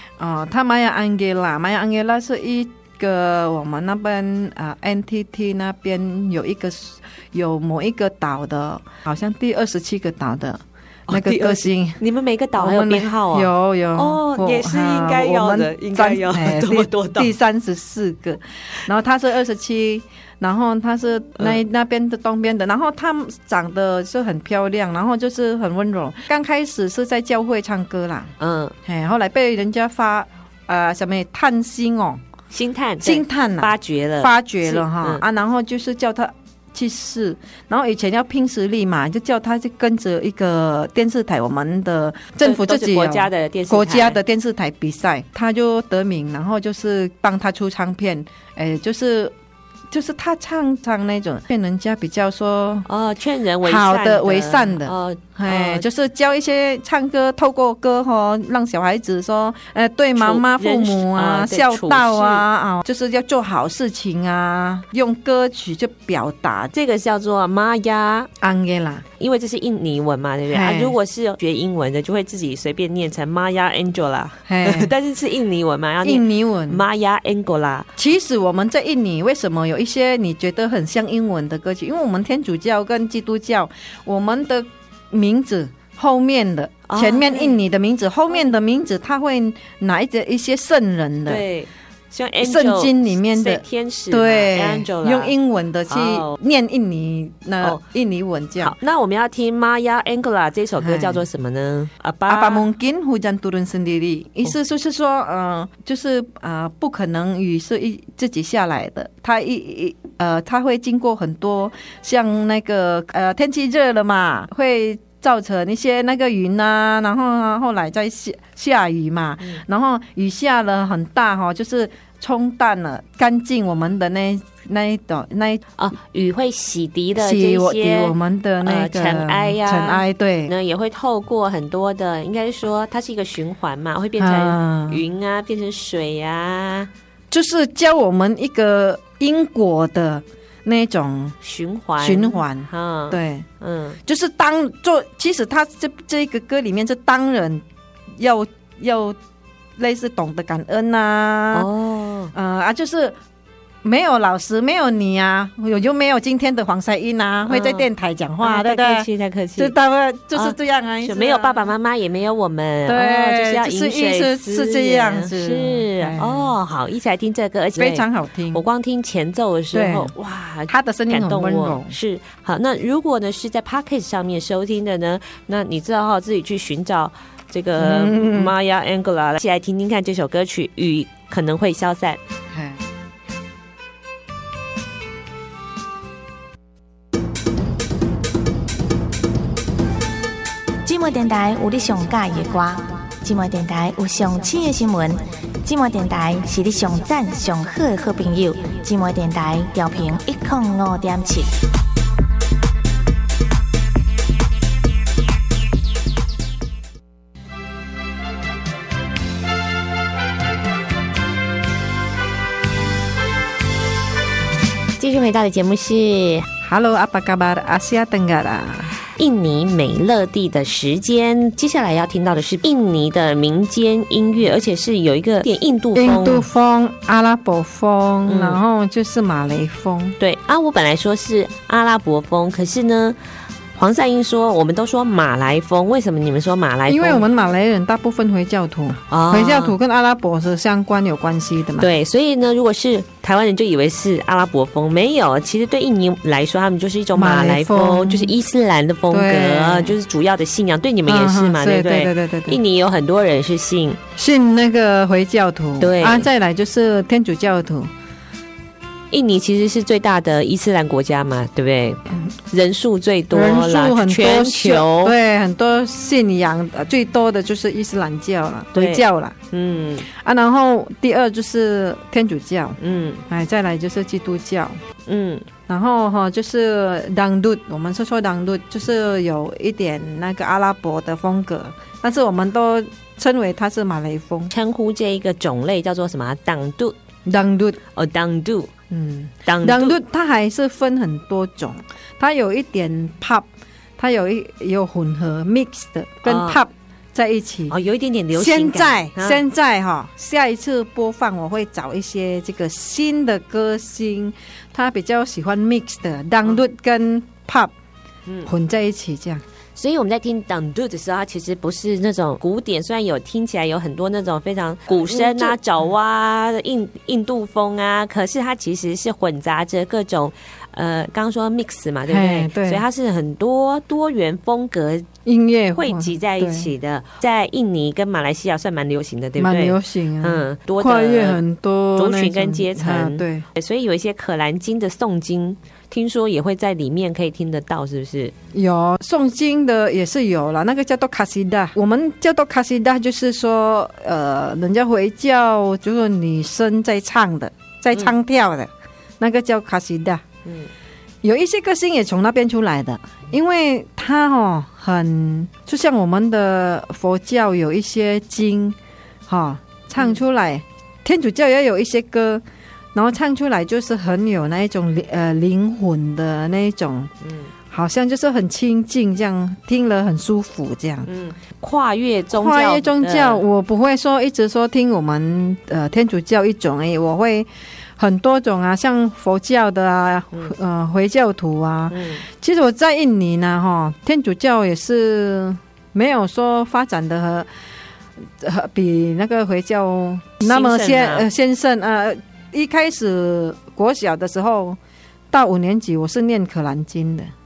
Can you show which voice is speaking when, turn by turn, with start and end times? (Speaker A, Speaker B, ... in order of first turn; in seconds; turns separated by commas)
Speaker A: 0.2-12.0, Speaker B: 11.1-17.3, Speaker A: 12.6-28.3, Speaker B: 28.4-28.7, Speaker A: 28.8-32.2, Speaker B: 32.5-35.2, Speaker A: 33.0-49.3, Speaker B: 42.4-44.2, Speaker A: 49.9-52.9, Speaker B: 52.9-55.8, Speaker A: 53.6-66.7, Speaker B: 60.2-62.4, Speaker B: 66.7-68.3, Speaker A: 68.4-69.0, Speaker B: 69.2-77.9, Speaker A: 70.5-71.0, Speaker A: 74.5-74.9, Speaker A: 76.0-76.8, Speaker A: 78.0-91.4, Speaker B: 86.9-87.6, Speaker B: 91.3-95.3, Speaker A: 92.4-98.7, Speaker B: 95.9-96.4, Speaker B: 98.6-102.7, Speaker A: 100.8-101.2, Speaker A: 102.3-125.6, Speaker B: 125.8-136.9, Speaker A: 127.2-130.5, Speaker A: 134.2-135.0, Speaker A: 137.3-141.3, Speaker B: 141.4-144.0, Speaker A: 142.0-143.5, Speaker A: 144.1-147.6, Speaker A: 148.2-149.2, Speaker A: 149.8-151.7, Speaker B: 151.5-152.3, Speaker A: 152.3-153.2, Speaker A: 153.8-161.7, Speaker B: 157.5-157.9, Speaker B: 158.4-159.7, Speaker B: 160.3-182.2, Speaker A: 162.8-166.5, Speaker A: 167.8-168.6, Speaker A: 169.7-170.1, Speaker A: 170.7-171.9, Speaker A: 177.8-178.5, Speaker A: 182.5-182.8, Speaker C: 190.8-201.5, Speaker B: 215.0-216.5, Speaker A: 216.6-218.9, Speaker B: 219.2-226.4, Speaker A: 225.9-230.2, Speaker B: 228.3-228.6, Speaker B: 230.2-233.2, Speaker B: 233.8-237.2, Speaker A: 236.9-241.9, Speaker B: 239.1-239.7, Speaker B: 241.8-254.0, Speaker A: 247.1-248.3, Speaker A: 249.1-249.9, Speaker A: 251.1-252.6, Speaker A: 254.2-257.9, Speaker B: 255.8-256.3, Speaker B: 259.1-265.1, Speaker A: 263.3-269.4, Speaker B: 268.7-270.1, Speaker A: 270.1-274.8, Speaker B: 272.8-273.2, Speaker B: 275.1-275.4, Speaker A: 275.7-284.5, Speaker B: 284.5-286.9, Speaker A: 287.2-287.8, Speaker B: 287.9-288.7, Speaker A: 288.9-297.7, Speaker B: 289.4-290.0, Speaker B: 296.2-296.6, Speaker B: 297.7-299.4, Speaker A: 298.3-307.7, Speaker A: 308.4-309.4, Speaker B: 309.8-325.1, Speaker A: 314.9-315.6, Speaker A: 322.1-322.8, Speaker A: 325.2-326.7, Speaker B: 325.8-331.4, Speaker A: 329.4-333.4, Speaker B: 331.9-338.3, Speaker A: 338.5-350.2, Speaker B: 350.4-350.7, Speaker A: 351.2-358.8, Speaker A: 359.3-367.1, Speaker B: 367.2-367.5, Speaker A: 367.7-371.1, Speaker B: 371.1-373.4, Speaker A: 372.3-387.5, Speaker B: 381.9-382.2, Speaker A: 388.4-394.8, Speaker B: 390.4-391.2, Speaker A: 395.3-397.3